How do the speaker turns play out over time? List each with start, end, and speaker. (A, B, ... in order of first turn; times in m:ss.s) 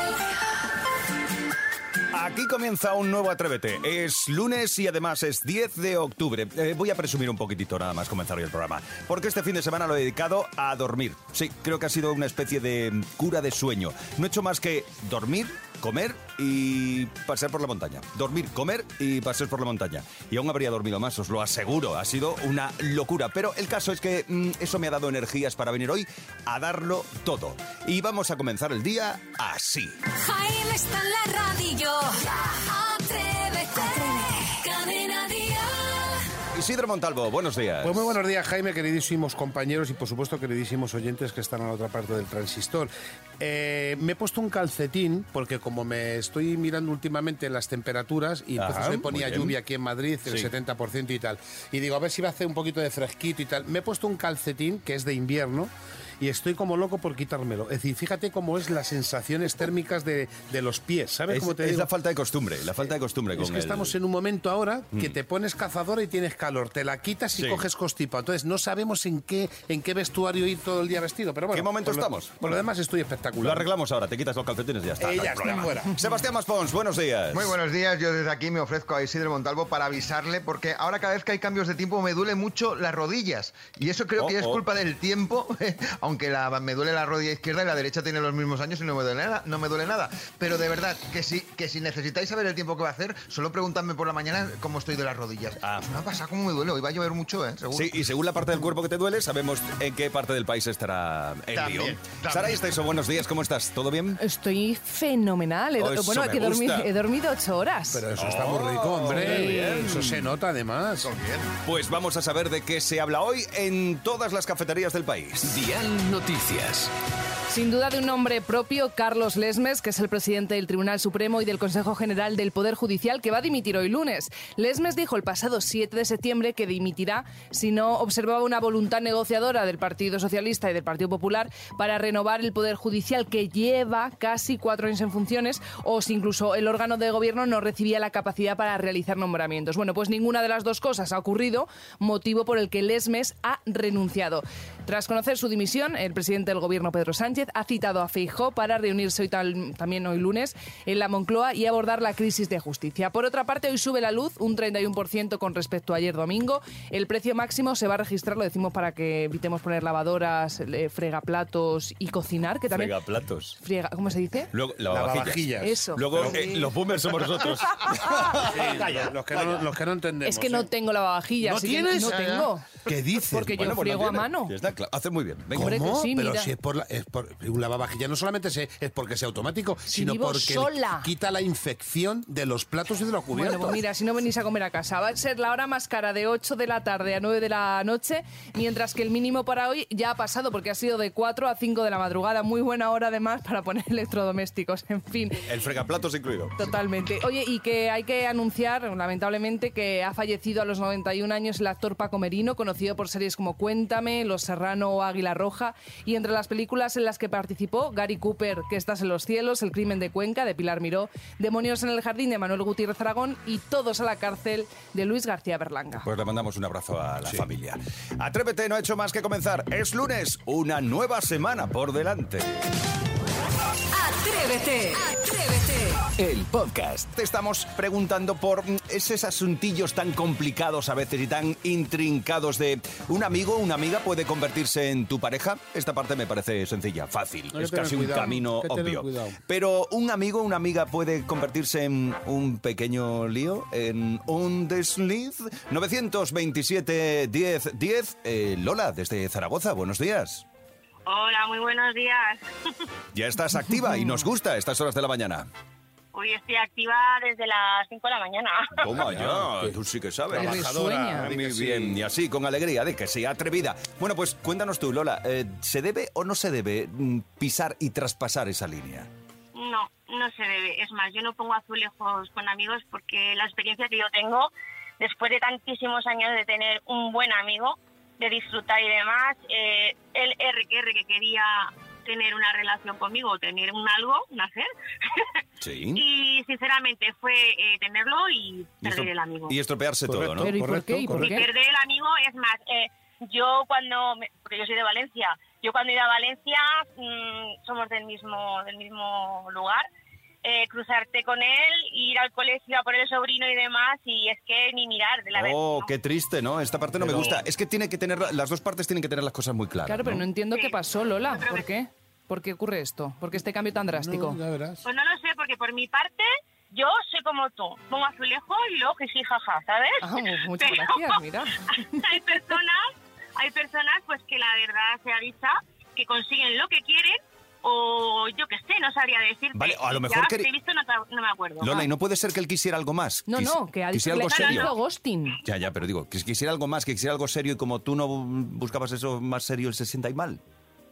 0:02.1-0:30.0 A
0:30.2-0:35.9 B
0:36.5-0:38.1 A
0:37.8-1:01.9 C
0:48.6-0:49.6 A
0:50.3-0:50.5 A
1:01.3-1:04.0 A
1:03.4-1:13.7 C
1:07.4-1:07.6 A
1:11.5-1:12.5 A
1:13.4-1:17.6 A
1:15.0-1:16.0 C
1:17.3-1:38.0 D
1:24.2-1:24.6 A
1:35.6-1:35.9 A
1:37.7-1:44.2 A
1:41.5-1:42.6 D
1:44.2-1:48.0 E
1:45.8-1:46.9 A
1:47.9-1:51.1 C
1:48.2-1:50.3 A
1:51.0-1:51.5 D
1:51.6-1:55.7 A
1:55.4-1:56.9 F
1:57.5-2:43.0 E
2:42.7-2:43.6 A
2:43.6-2:44.5 E
2:44.5-2:49.7 A
2:44.9-2:46.6 C
2:45.6-2:46.7 E
2:48.2-2:50.7 C
2:50.2-2:54.5 E
2:51.4-2:53.6 C
2:53.5-2:55.8 A
2:55.5-3:03.8 C
2:55.6-2:56.5 E
2:59.9-3:01.1 E
3:03.4-3:15.5 E
3:15.5-3:16.7 A
3:16.6-3:36.1 E
3:36.0-3:42.6 A
3:44.0-3:45.9 B
3:46.2-3:47.1 F
3:47.1-4:10.4 A
3:57.5-3:59.4 C
4:11.1-4:12.4 G
4:13.1-4:15.5 A
4:16.1-4:18.8 G
4:18.8-4:29.1 A
4:18.9-4:19.8 C
4:20.3-4:22.0 C
4:20.3-4:21.3 E
4:29.5-4:45.3 G
4:45.6-4:46.0 A
4:45.9-4:49.6 G
4:48.8-4:50.6 A
4:50.1-4:51.5 C
4:50.4-4:51.5 E
4:51.2-4:59.9 G
5:00.4-5:05.9 G
5:05.4-5:10.3 A
5:07.0-5:07.4 C
5:09.9-5:14.4 E
5:10.5-5:11.7 G
5:13.9-5:14.8 C
5:14.8-5:21.2 G
5:20.0-5:22.0 E
5:21.9-5:31.9 G
5:29.5-5:30.5 A
5:31.6-5:34.7 A
5:33.3-5:35.4 E
5:34.2-5:34.7 G
5:35.4-5:40.4 A